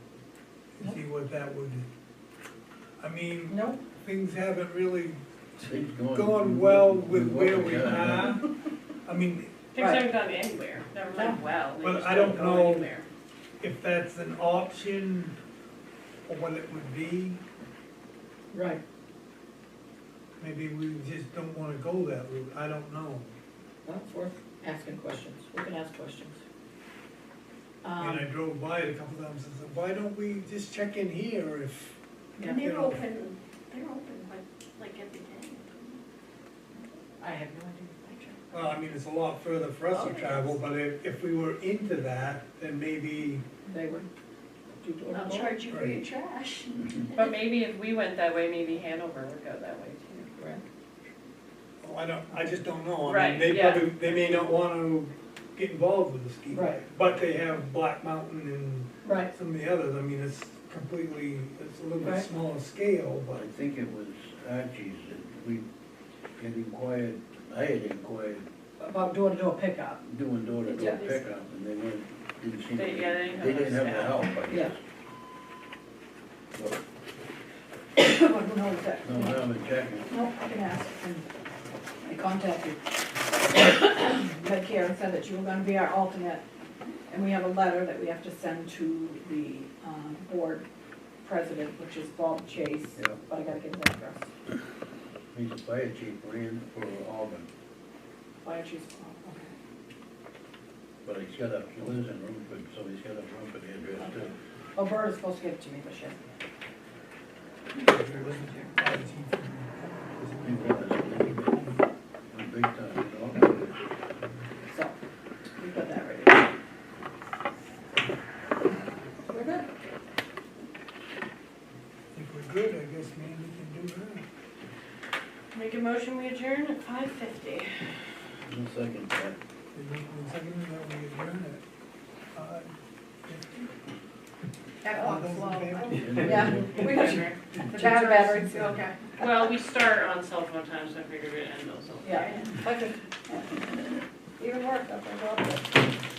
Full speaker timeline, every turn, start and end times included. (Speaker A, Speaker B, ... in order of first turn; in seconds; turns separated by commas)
Speaker A: 0.8-1.9, Speaker A: 3.0-5.2, Speaker B: 3.5-3.8, Speaker C: 5.6-8.4, Speaker A: 6.1-8.5, Speaker A: 9.0-9.5, Speaker D: 9.7-13.1, Speaker B: 9.8-10.1, Speaker B: 11.1-11.4, Speaker A: 11.8-12.9, Speaker A: 13.6-15.4, Speaker A: 16.3-17.4, Speaker B: 18.5-18.8, Speaker A: 20.4-23.4, Speaker B: 23.8-26.4, Speaker B: 27.8-28.3, Speaker A: 28.0-33.0, Speaker E: 32.4-36.0, Speaker B: 37.2-38.3, Speaker E: 38.1-38.5, Speaker A: 38.5-43.4, Speaker E: 39.9-40.5, Speaker B: 43.6-44.1, Speaker B: 44.8-45.6, Speaker E: 45.1-47.3, Speaker A: 45.7-46.0, Speaker D: 47.1-50.3, Speaker B: 50.4-50.6, Speaker A: 51.8-63.5, Speaker D: 53.0-53.9, Speaker B: 56.5-56.8, Speaker B: 59.0-59.3, Speaker B: 62.0-62.3, Speaker C: 63.3-65.6, Speaker C: 66.3-68.5, Speaker B: 68.8-70.0, Speaker C: 70.0-74.8, Speaker E: 70.6-71.2, Speaker D: 72.7-74.2, Speaker B: 74.5-74.7, Speaker C: 76.5-76.8, Speaker B: 78.0-79.5, Speaker C: 79.0-80.1, Speaker B: 80.0-81.3, Speaker B: 82.0-82.8, Speaker B: 83.3-86.4, Speaker B: 87.1-90.7, Speaker B: 91.2-94.3, Speaker C: 95.3-97.5, Speaker B: 98.4-99.5, Speaker C: 101.0-104.3, Speaker B: 104.0-106.2, Speaker A: 107.7-111.8, Speaker B: 107.9-108.7, Speaker C: 110.4-111.6, Speaker C: 112.3-113.7, Speaker B: 114.7-115.0, Speaker B: 115.6-116.5, Speaker B: 119.3-119.7, Speaker A: 122.1-124.3, Speaker D: 125.5-127.8, Speaker C: 128.4-129.4, Speaker A: 129.7-131.6, Speaker A: 132.3-132.7, Speaker A: 133.2-133.6, Speaker B: 134.8-138.7, Speaker A: 134.8-136.8, Speaker E: 135.5-135.7, Speaker C: 135.9-137.1, Speaker D: 136.9-137.3, Speaker A: 137.5-138.6, Speaker E: 137.7-139.2, Speaker D: 139.2-142.3, Speaker B: 142.0-143.3, Speaker E: 142.1-142.5, Speaker B: 144.4-145.7